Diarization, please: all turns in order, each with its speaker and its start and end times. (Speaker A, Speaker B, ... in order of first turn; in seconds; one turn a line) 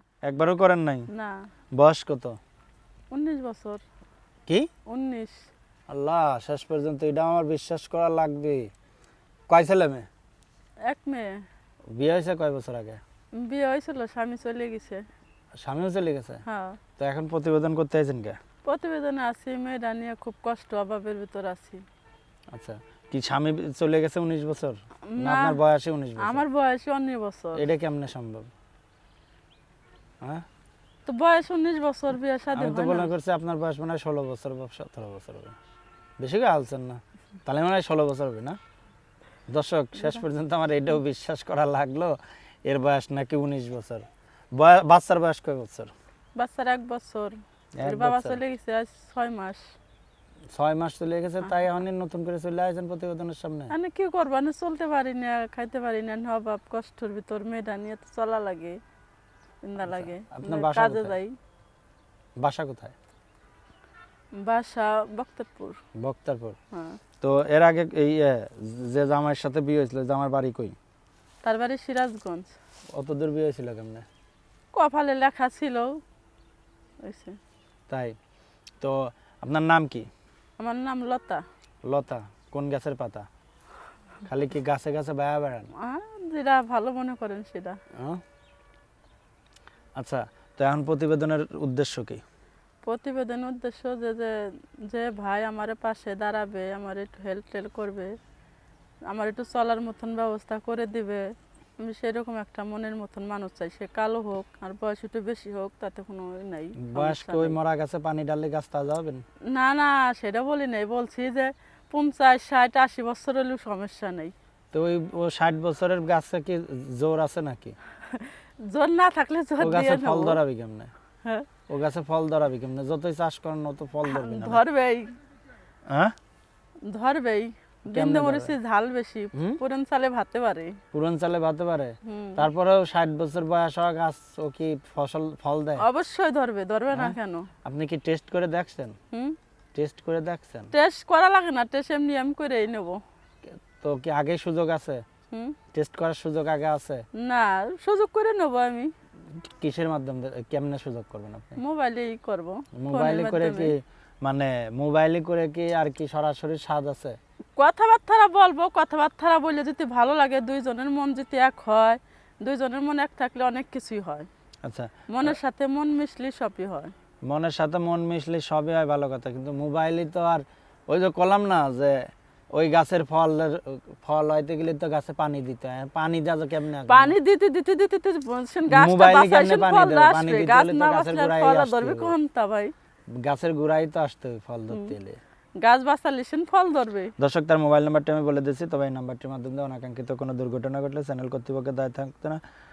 Speaker A: 0.2-1.1
Speaker B: 1.1-1.5
Speaker A: 1.7-2.4
Speaker B: 3.1-3.8
Speaker B: 4.9-5.5
Speaker A: 5.9-8.7
Speaker A: 9.5-10.1
Speaker B: 10.9-11.4
Speaker A: 12.0-13.0
Speaker B: 13.3-15.0
Speaker A: 15.6-16.4
Speaker B: 16.5-16.8
Speaker A: 17.0-18.4
Speaker B: 18.6-21.8
Speaker A: 22.5-26.4
Speaker B: 25.1-25.6
Speaker B: 26.2-27.6
Speaker A: 27.6-28.5
Speaker B: 31.1-33.1
Speaker A: 32.5-35.6
Speaker A: 36.2-38.6
Speaker A: 39.5-45.9
Speaker B: 46.4-49.7
Speaker A: 47.8-48.4
Speaker A: 50.5-53.7
Speaker B: 53.7-58.8
Speaker B: 59.6-61.4
Speaker A: 59.8-61.2
Speaker A: 62.4-63.0
Speaker B: 64.4-65.8
Speaker A: 66.0-66.6
Speaker B: 66.7-67.0
Speaker A: 67.2-70.8
Speaker B: 71.4-72.5
Speaker A: 72.9-74.1
Speaker B: 74.7-76.0
Speaker B: 77.0-77.4
Speaker A: 77.9-78.2
Speaker A: 78.8-80.1
Speaker B: 80.6-81.5
Speaker A: 81.8-83.3
Speaker A: 84.2-85.7
Speaker B: 85.8-87.8
Speaker A: 87.9-88.2
Speaker A: 90.0-92.2
Speaker B: 92.8-98.2
Speaker B: 99.1-107.6
Speaker A: 106.8-109.2
Speaker B: 109.5-114.3
Speaker A: 114.7-117.8
Speaker B: 118.1-120.4
Speaker A: 119.6-120.9
Speaker A: 121.7-124.6
Speaker B: 124.0-125.1
Speaker A: 125.9-126.1
Speaker B: 126.8-130.8
Speaker A: 127.9-128.6
Speaker A: 129.3-129.6
Speaker A: 130.9-135.8
Speaker B: 132.1-132.4
Speaker B: 135.8-137.5
Speaker A: 136.9-139.0
Speaker A: 139.8-140.7
Speaker B: 140.7-143.0
Speaker A: 143.5-145.0
Speaker B: 145.3-145.6
Speaker A: 145.7-147.0
Speaker B: 147.2-148.9
Speaker A: 149.4-151.6
Speaker B: 151.6-153.7
Speaker A: 152.8-157.2
Speaker B: 157.6-164.3
Speaker A: 164.6-165.4
Speaker B: 165.1-166.9
Speaker A: 167.3-177.2
Speaker B: 176.9-182.7
Speaker A: 178.7-182.2
Speaker A: 183.1-185.2
Speaker B: 185.6-187.1
Speaker A: 187.2-192.4